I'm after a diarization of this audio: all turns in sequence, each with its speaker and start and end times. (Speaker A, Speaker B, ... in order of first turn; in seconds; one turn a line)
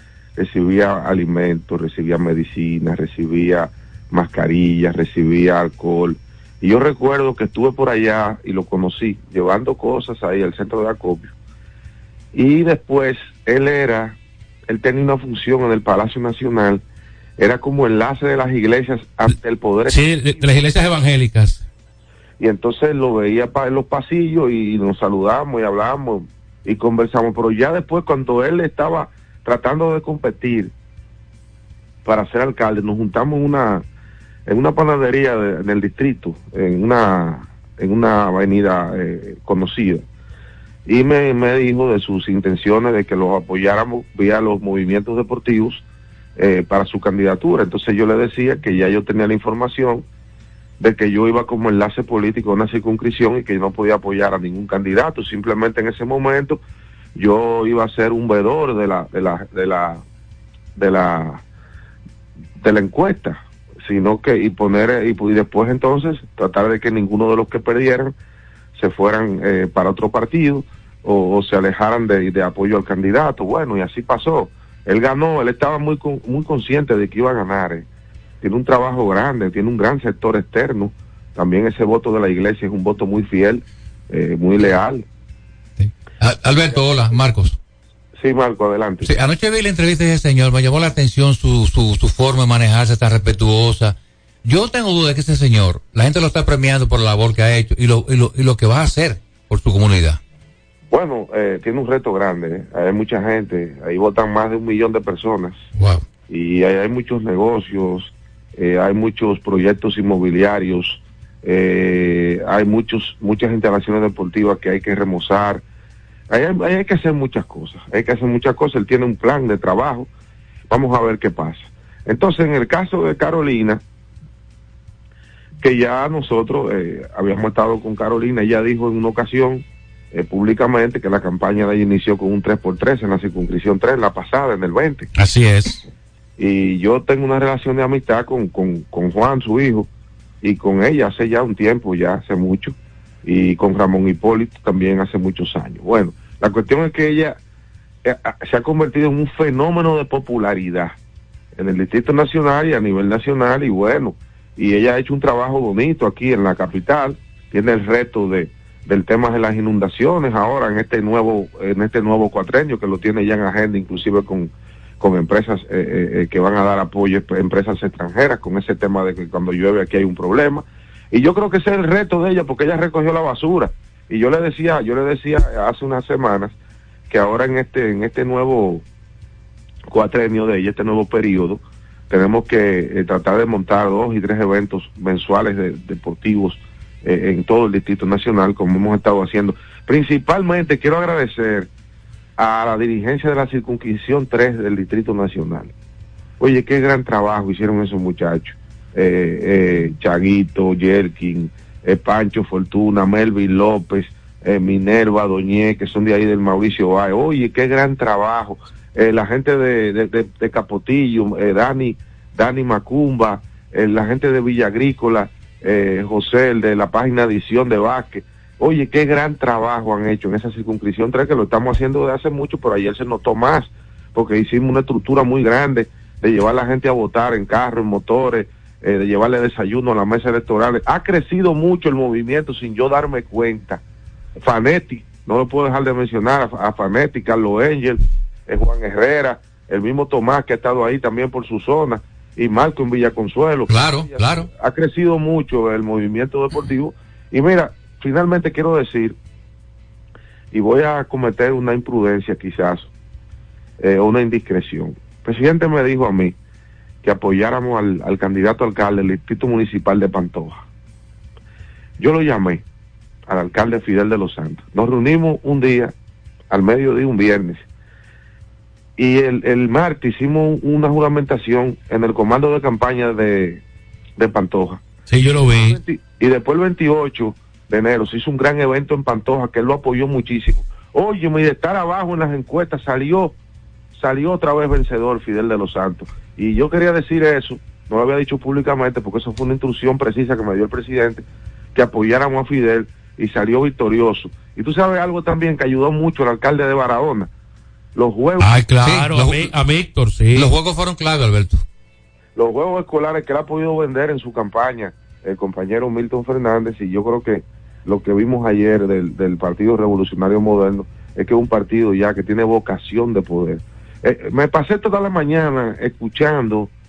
Speaker A: 0.4-11.3
Speaker A: 12.3-14.2
Speaker A: 14.7-16.8
Speaker A: 17.4-20.4
Speaker B: 19.9-21.6
Speaker A: 22.4-30.7
Speaker A: 32.1-33.8
Speaker A: 34.5-40.0
Speaker A: 40.9-45.8
Speaker A: 46.4-50.0
Speaker A: 50.8-56.6
Speaker A: 57.2-60.0
Speaker A: 60.8-61.4
Speaker A: 62.6-68.1
Speaker A: 68.8-77.8
Speaker A: 78.4-85.0
Speaker C: 85.8-87.6
Speaker A: 88.2-89.1
Speaker C: 89.0-100.2
Speaker A: 100.9-105.7
Speaker C: 105.8-106.0
Speaker A: 106.3-115.6
Speaker A: 116.3-120.1
Speaker A: 120.7-123.8
Speaker A: 125.6-135.1
Speaker B: 135.2-135.8
Speaker A: 136.4-139.9
Speaker A: 140.4-142.7
Speaker A: 143.2-147.4
Speaker A: 148.1-151.0
Speaker A: 151.6-176.5
Speaker A: 177.1-178.8
Speaker A: 179.9-191.7
Speaker A: 192.4-195.7
Speaker A: 196.4-233.8
Speaker A: 234.4-249.2
Speaker C: 243.7-244.5
Speaker A: 250.5-252.9
Speaker A: 253.8-256.4
Speaker A: 257.0-260.6
Speaker A: 262.0-262.6
Speaker A: 263.3-265.9
Speaker A: 266.5-267.6
Speaker A: 269.0-273.6
Speaker A: 274.2-274.8
Speaker B: 275.1-275.8
Speaker A: 275.5-283.3
Speaker A: 283.9-291.2
Speaker A: 291.8-297.3
Speaker A: 297.9-298.6
Speaker B: 298.4-300.5
Speaker C: 298.8-299.5
Speaker C: 300.4-301.6
Speaker A: 302.4-316.7